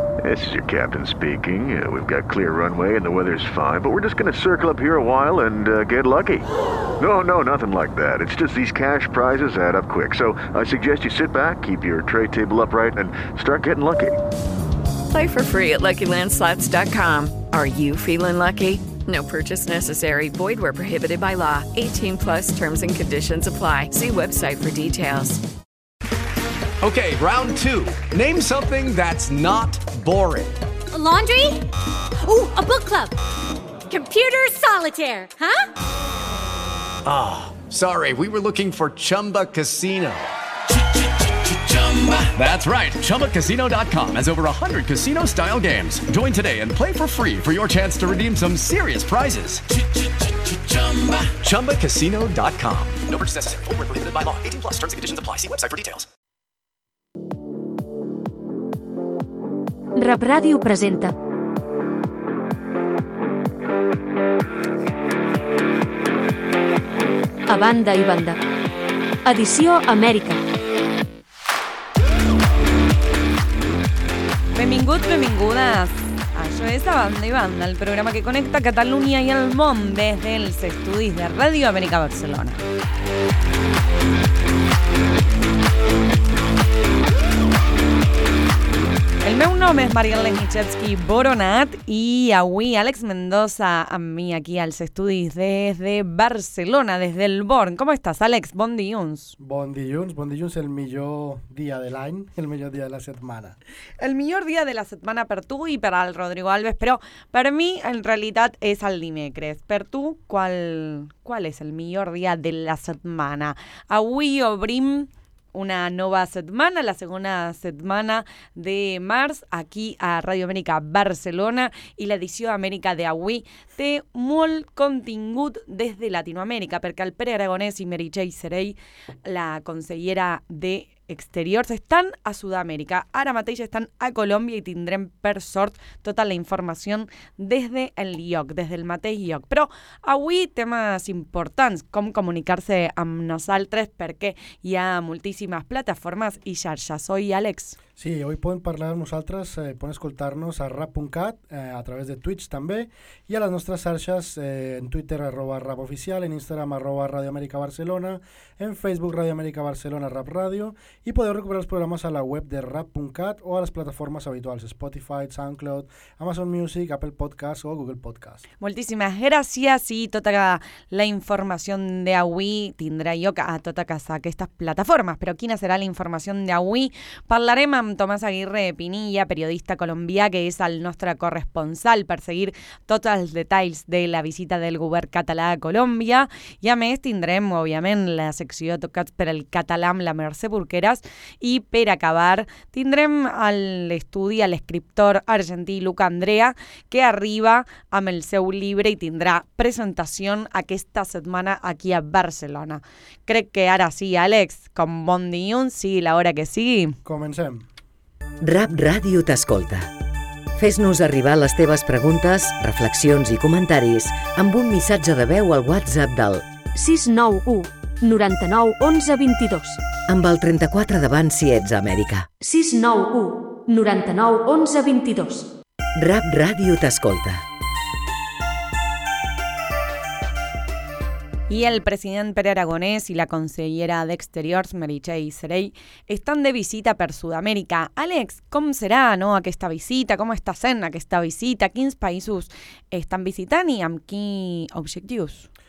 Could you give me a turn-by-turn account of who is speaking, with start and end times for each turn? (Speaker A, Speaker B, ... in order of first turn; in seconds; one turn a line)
Speaker A: 0.2-6.5
Speaker A: 7.0-14.1
Speaker B: 15.1-25.4
Speaker C: 26.8-30.6
Speaker D: 30.9-31.6
Speaker D: 32.2-33.1
Speaker D: 33.9-35.7
Speaker C: 37.0-40.3
Speaker C: 42.2-49.6
Speaker C: 50.6-56.1
Speaker E: 60.0-61.1
Speaker E: 67.5-68.4
Speaker E: 69.2-70.4
Speaker F: 74.5-82.6
Speaker F: 89.2-99.3
Speaker G: 99.4-103.6
Speaker F: 104.0-147.8
Speaker G: 148.0-168.4
Speaker F: 168.6-207.0
Speaker G: 207.0-207.7
Speaker H: 208.4-209.9
Speaker H: 210.6-216.4
Speaker E: 216.7-219.8
Speaker H: 220.1-222.3
Speaker E: 222.4-225.5
Speaker H: 225.9-227.4
Speaker F: 231.5-245.5